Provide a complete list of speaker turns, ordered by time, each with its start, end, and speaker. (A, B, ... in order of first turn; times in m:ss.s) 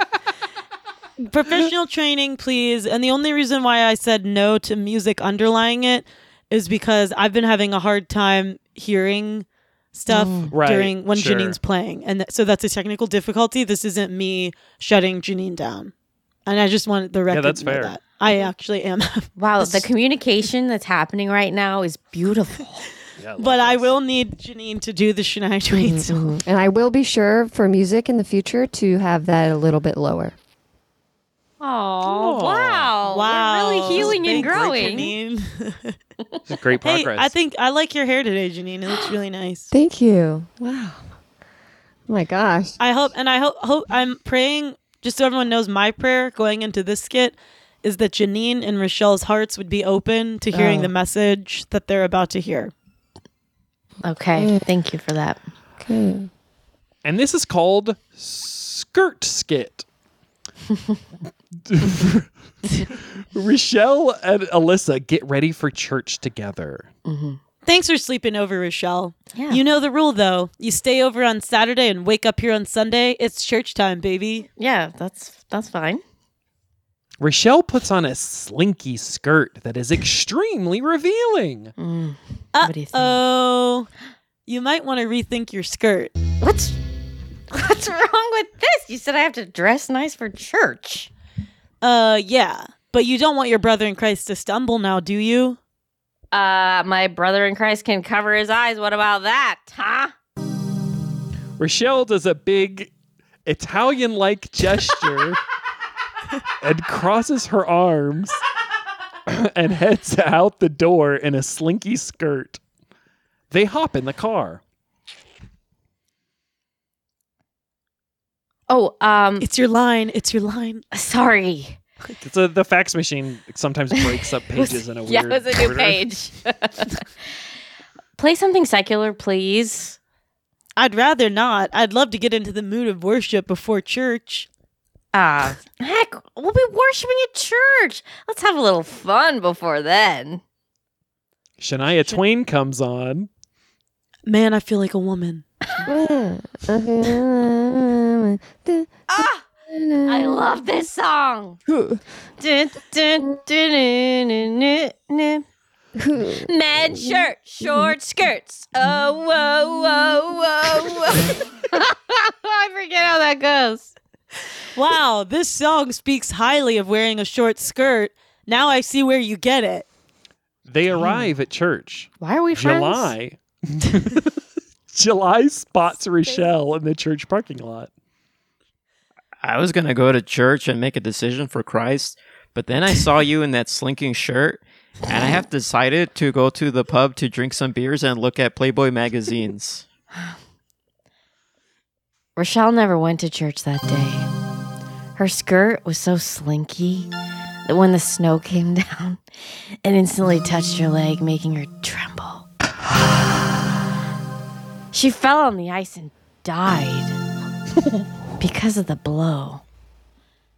0:01.2-0:15.9 A
0:10.1-0:10.5 B
0:10.5-0:11.6 C
0:16.4-0:19.9 A
0:17.3-0:18.0 C
0:19.4-0:22.8 B
0:23.2-0:23.9 C
0:23.4-0:26.2 A
0:25.7-0:30.4 D
0:26.1-0:26.4 B
0:31.6-0:35.1 B
0:32.0-0:32.9 C
0:33.0-0:36.0 A
0:33.9-0:34.4 C
0:36.5-0:37.3 C
0:36.8-0:39.7 A
0:39.7-0:41.0 D
0:42.1-0:42.8 D
0:42.8-0:52.7 A
0:50.6-0:50.8 D
0:50.6-0:50.9 B
0:54.0-0:55.4 B
0:54.4-0:54.6 D
0:55.8-0:56.3 D
0:57.0-0:59.8 C
1:01.6-1:06.9 C
1:07.0-1:07.4 B
1:07.6-1:14.5 A
1:09.3-1:09.6 B
1:14.6-1:16.0 B
1:17.2-1:21.7 C
1:21.8-1:23.2 B
1:22.5-1:23.9 A
1:24.4-1:26.1 A
1:26.4-1:26.8 B
1:27.5-1:31.1 B
1:31.8-1:35.6 A
1:36.3-1:40.1 B
1:41.6-1:42.9 C
1:43.4-1:45.4 C
1:46.6-1:48.4 C
1:49.3-1:52.6 C
1:53.5-1:54.6 C
1:58.7-1:59.5 B
1:59.4-2:00.8 A
2:00.9-2:01.8 B
2:02.2-2:06.0 C
2:04.0-2:07.0 B
2:08.2-2:10.0 B
2:10.8-2:14.5 A
2:15.1-2:20.4 B
2:21.6-2:23.3 C
2:24.2-2:25.4 A
2:25.8-2:30.5 D
2:29.1-2:29.4 B
2:30.0-2:31.6 B
2:31.7-2:32.0 D
2:32.4-2:35.4 B
2:36.0-2:36.5 D
2:36.4-2:43.9 B
2:44.7-2:49.8 A
2:50.7-2:54.4 C
2:52.2-2:53.1 B
2:54.9-2:57.9 C
2:59.4-3:09.8 E
3:12.4-3:14.3 B
3:15.2-3:17.1 B
3:17.6-3:19.2 B
3:19.8-3:22.4 B
3:24.9-3:27.2 B
3:28.4-3:29.6 B